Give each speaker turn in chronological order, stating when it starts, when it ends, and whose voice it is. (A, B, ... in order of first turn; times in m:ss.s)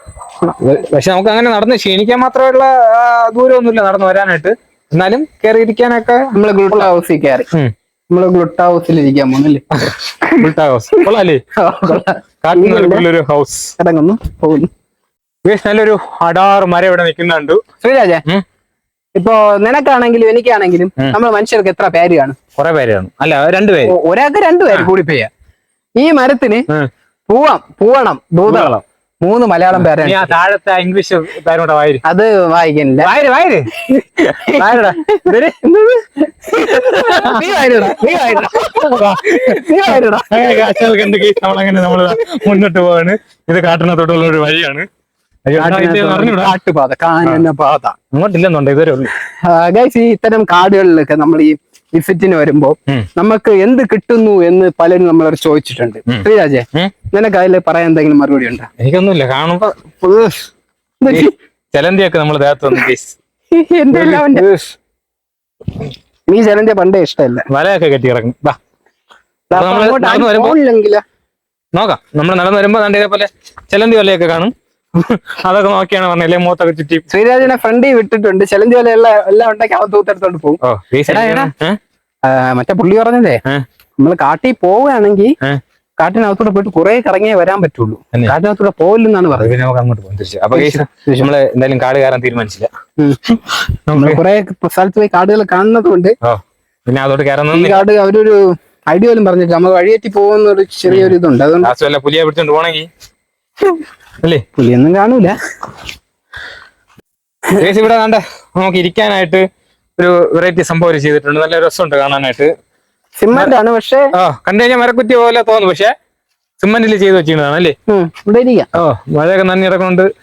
0:00.5-0:06.9 A
0:06.4-0:07.5 B
0:08.1-0:09.6 B
0:09.8-0:11.4 A
0:10.2-0:11.0 B
0:11.6-0:13.0 B
0:12.0-0:13.8 A
0:13.8-0:14.7 B
0:15.4-0:17.6 A
0:17.8-0:18.2 B
0:19.1-0:22.4 B
0:22.6-0:23.9 A
0:23.9-0:25.3 B
0:26.0-0:26.7 B
0:27.3-0:30.3 B
0:28.4-0:28.8 A
0:29.8-0:32.0 A
0:32.0-0:33.1 B
0:33.0-0:35.5 A
0:34.4-0:38.9 B
0:36.5-0:44.9 A
0:39.5-0:40.6 B
0:45.4-0:46.6 A
0:45.6-0:47.9 B
0:48.1-0:49.1 A
0:49.5-0:58.7 B
0:56.1-0:56.9 A
0:58.8-1:00.4 A
1:01.0-1:01.3 B
1:01.1-1:03.2 A
1:03.5-1:04.4 B
1:03.9-1:04.8 A
1:06.3-1:07.4 B
1:07.5-1:08.6 A
1:09.5-1:11.0 B
1:09.5-1:10.6 A
1:11.7-1:17.1 A
1:17.1-1:21.5 B
1:20.6-1:21.8 A
1:22.2-1:23.4 B
1:24.0-1:25.3 B
1:26.0-1:29.5 B
1:29.3-1:32.7 A
1:30.5-1:31.3 B
1:33.9-1:34.2 A
1:33.9-1:36.1 B
1:36.2-1:37.8 A
1:37.5-1:41.7 B
1:40.9-1:42.9 A
1:44.6-1:45.4 B
1:47.6-1:49.4 A
1:50.0-1:52.5 A
1:53.2-1:54.1 B
1:54.1-1:55.9 A
1:56.6-1:57.8 A
1:57.9-1:58.7 B
1:58.7-2:00.1 A